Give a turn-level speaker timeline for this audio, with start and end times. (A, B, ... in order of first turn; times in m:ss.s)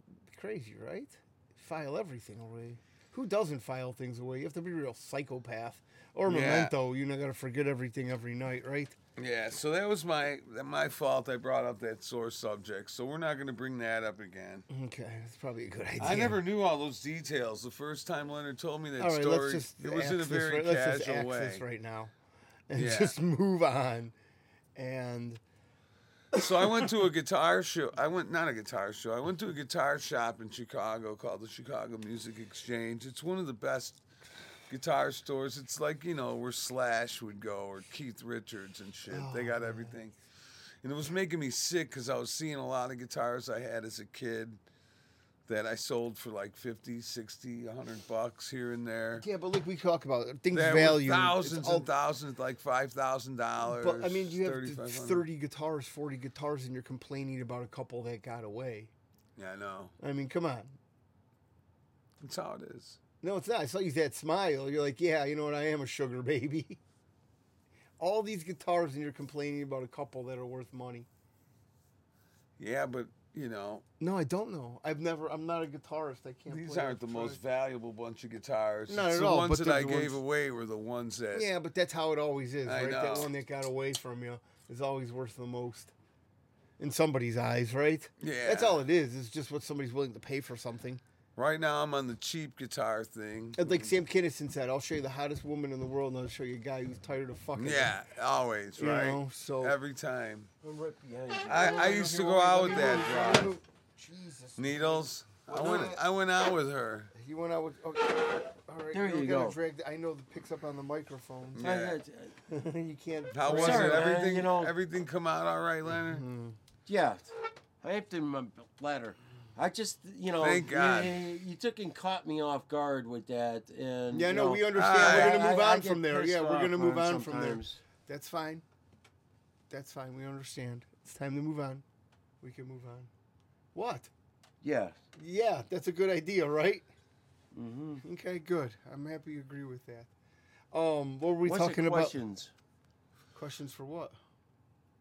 0:00.3-0:09.0 A
0:06.3-0:06.7 B
0:09.2-0:14.7 B
0:14.7-0:16.4 A
0:16.0-0:21.6 B
0:19.0-0:22.1 A
0:22.7-0:24.1 A
0:22.8-0:23.2 B
0:24.8-0:25.4 A
0:26.3-0:26.9 A
0:26.4-0:34.0 B
0:34.7-0:40.2 B
0:39.1-0:40.0 A
0:40.8-0:44.6 B
0:45.5-0:49.2 B
0:49.2-0:51.9 A
0:50.5-0:55.2 B
0:53.6-0:58.9 A
0:59.4-0:59.9 B
1:00.0-1:00.8 A
1:02.2-1:03.0 B
1:03.2-1:06.8 A
1:08.0-1:11.1 A
1:12.6-1:13.8 B
1:14.0-1:17.4 A
1:16.5-1:21.5 B
1:18.9-1:20.2 A
1:21.3-1:25.9 A
1:22.7-1:23.3 B
1:26.8-1:31.0 A
1:28.2-1:28.8 B
1:31.4-1:33.9 B
1:33.6-1:37.9 A
1:37.6-1:40.5 B
1:38.8-1:39.8 A
1:40.6-1:42.0 C
1:41.5-1:43.6 B
1:41.5-1:46.0 A
1:44.6-1:47.1 B
1:47.1-1:51.6 A
1:48.9-1:49.6 C
1:51.5-1:52.0 B
1:51.6-1:52.4 C
1:52.5-1:54.2 A
1:53.3-1:56.2 B
1:53.5-1:54.7 C
1:55.9-1:56.6 A
1:56.9-2:07.8 C
2:00.4-2:01.2 B
2:04.1-2:08.6 A
2:04.7-2:05.4 B
2:09.7-2:11.8 A
2:12.4-2:13.1 A
2:13.8-2:14.1 A
2:14.6-2:15.0 C
2:15.2-2:16.9 A
2:17.5-2:18.0 C
2:18.0-2:20.1 A
2:20.7-2:22.2 A
2:21.4-2:22.5 C
2:23.3-2:24.2 A